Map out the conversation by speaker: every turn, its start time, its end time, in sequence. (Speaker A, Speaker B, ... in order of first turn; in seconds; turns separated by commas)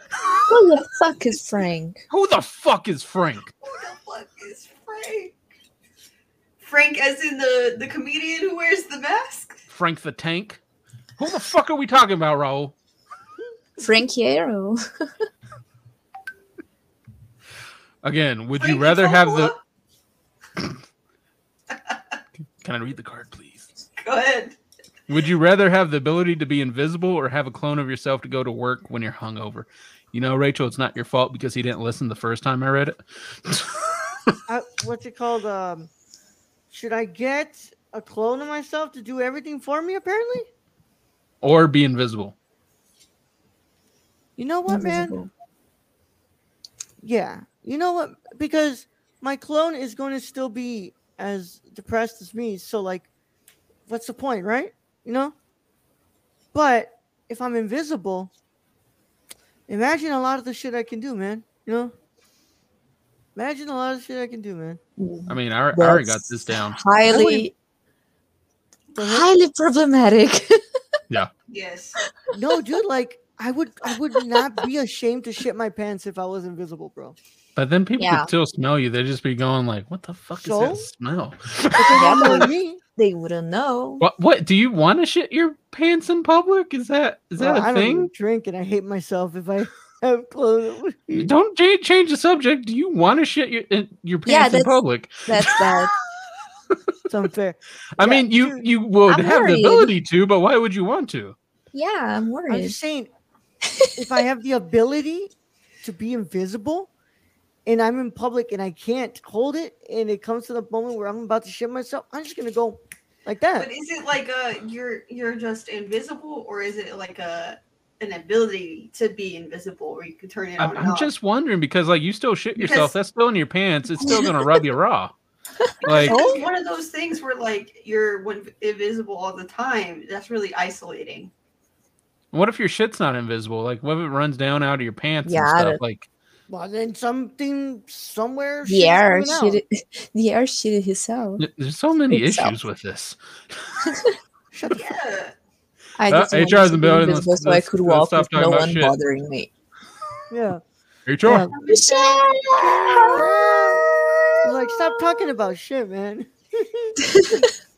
Speaker A: 0.2-0.5, Speaker B: 0.5-2.0, Speaker C: 2.1-3.5, Speaker A: 3.6-5.3, Speaker A: 6.6-9.6, Speaker C: 9.7-10.6, Speaker C: 11.2-12.7, Speaker B: 13.8-14.8, Speaker C: 18.0-19.5, Speaker A: 18.6-19.6, Speaker C: 22.6-23.7, Speaker A: 24.0-24.6, Speaker C: 25.1-33.8, Speaker D: 34.5-35.9, Speaker D: 36.7-40.5, Speaker C: 41.4-42.3, Speaker D: 44.4-45.2, Speaker B: 44.7-45.3, Speaker D: 47.0-53.1, Speaker D: 53.9-55.3, Speaker D: 56.5-58.3, Speaker D: 59.7-61.9, Speaker D: 63.4-64.8, Speaker B: 65.0-67.5, Speaker C: 65.3-66.8, Speaker D: 67.1-67.5, Speaker D: 68.9-69.3, Speaker B: 69.0-70.6, Speaker A: 71.5-72.0, Speaker D: 72.3-77.2, Speaker C: 77.6-82.0, Speaker B: 78.0-78.3, Speaker D: 80.4-80.9, Speaker D: 81.7-82.8, Speaker B: 81.9-84.0, Speaker C: 84.0-88.1, Speaker D: 87.4-91.3, Speaker C: 91.1-95.7, Speaker B: 94.2-95.9, Speaker D: 97.1-98.6, Speaker C: 98.0-101.3, Speaker B: 99.1-99.9, Speaker B: 101.7-102.8, Speaker D: 102.5-103.1, Speaker D: 104.0-106.9, Speaker D: 107.7-113.7, Speaker A: 113.6-121.1, Speaker C: 120.6-125.1, Speaker A: 122.5-122.9, Speaker B: 125.6-126.4, Speaker A: 125.8-131.3, Speaker C: 125.8-126.2, Speaker C: 132.3-136.1, Speaker B: 135.2-135.8, Speaker D: 136.5-139.6, Speaker B: 138.7-141.4, Speaker C: 141.4-143.9, Speaker B: 142.1-142.6, Speaker B: 143.8-144.2, Speaker D: 144.5-144.9, Speaker A: 144.7-145.3, Speaker B: 146.0-149.5, Speaker C: 146.1-149.0, Speaker D: 150.3-150.6, Speaker C: 151.1-151.5, Speaker D: 151.2-151.5, Speaker A: 151.5-154.3, Speaker B: 151.7-153.3, Speaker D: 153.1-153.8, Speaker D: 154.4-157.4, Speaker B: 157.2-157.4